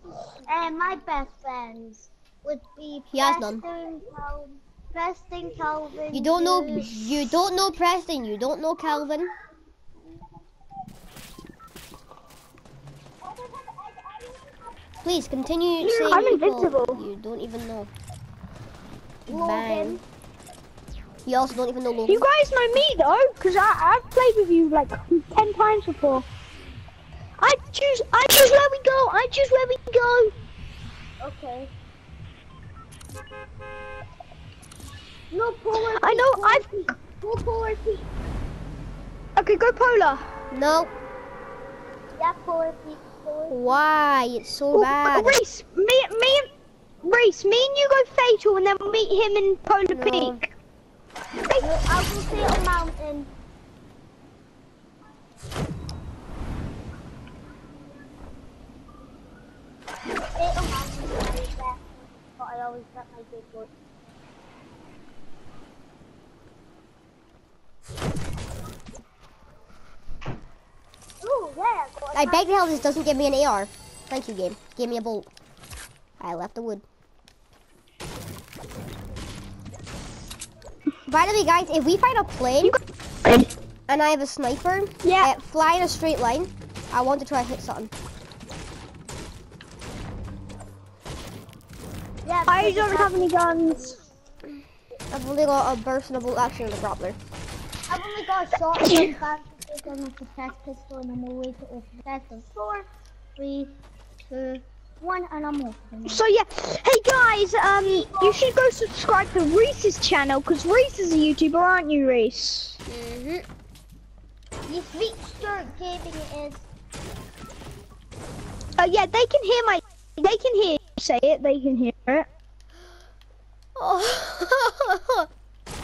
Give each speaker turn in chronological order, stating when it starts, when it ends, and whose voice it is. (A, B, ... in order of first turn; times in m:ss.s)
0:00.5-0:07.0 A
0:03.1-0:03.6 B
0:06.1-0:09.3 B
0:15.0-0:17.9 B
0:15.8-0:16.4 A
0:16.1-0:17.0 C
0:19.3-0:20.0 A
0:19.3-0:20.0 B
0:21.3-0:22.3 B
0:22.1-0:26.2 C
0:27.4-0:30.3 C
0:31.2-0:31.7 A
0:35.3-0:38.1 A
0:35.8-0:36.6 C
0:39.4-0:40.2 C
0:40.5-0:40.9 B
0:42.2-0:43.8 A
0:43.5-0:45.4 B
0:44.7-0:46.5 C
0:47.0-0:50.5 C
0:49.9-0:50.4 B
0:51.6-0:53.3 A
1:00.4-1:03.7 A
1:11.2-1:12.5 A
1:12.1-1:15.3 B
1:16.2-1:16.8 B
1:21.1-1:22.8 B
1:22.6-1:23.5 C
1:23.9-1:27.9 B
1:25.0-1:25.3 C
1:32.2-1:34.0 A
1:32.5-1:34.0 C
1:35.1-1:37.2 B
1:37.9-1:43.7 A
1:44.3-1:44.6 B
1:45.0-1:46.2 A
1:46.1-1:52.8 C
1:47.8-1:48.4 A
1:52.9-1:53.5 B
1:54.7-1:56.7 A
1:58.8-2:02.3 C
2:03.8-2:05.3 B